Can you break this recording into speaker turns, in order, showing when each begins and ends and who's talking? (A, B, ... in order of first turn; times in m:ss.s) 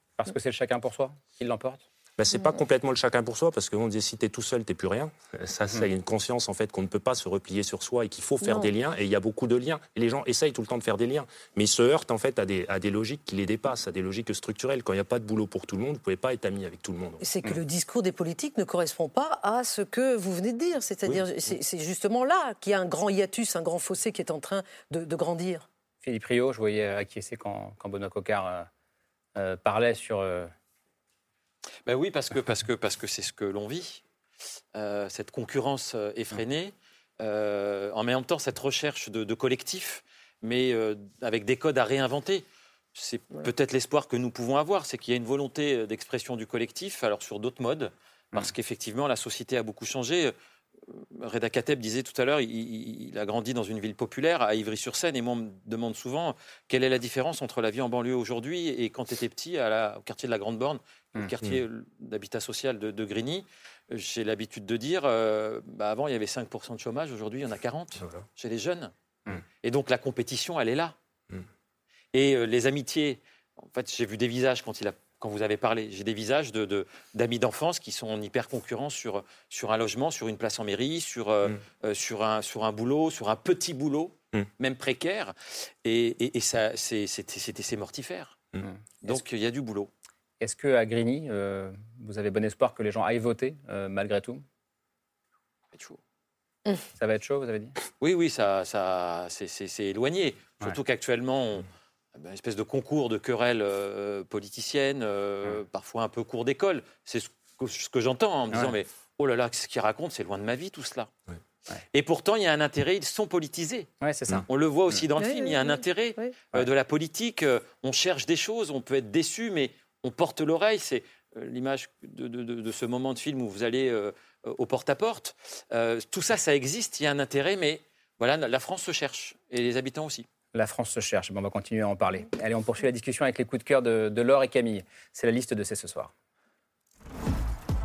0:00.2-0:01.8 A
0:02.2-0:17.2 B
0:08.4-0:08.7 C
0:17.2-0:25.6 C
0:26.0-0:28.7 A
0:29.4-0:30.5 A
0:31.8-0:34.0 D
0:34.7-0:50.3 D
0:50.9-1:08.9 D
1:08.0-1:08.2 B
1:09.6-1:10.9 D
1:12.1-1:28.4 D
1:28.6-1:29.2 A
1:29.0-1:29.9 D
1:30.4-1:34.4 A
1:35.7-1:36.0 D
1:37.0-1:37.7 A
1:38.0-1:51.1 D
1:51.9-1:53.9 D
1:54.0-1:54.4 A
1:54.4-2:10.3 D
1:55.2-1:56.3 C
2:10.5-2:16.1 A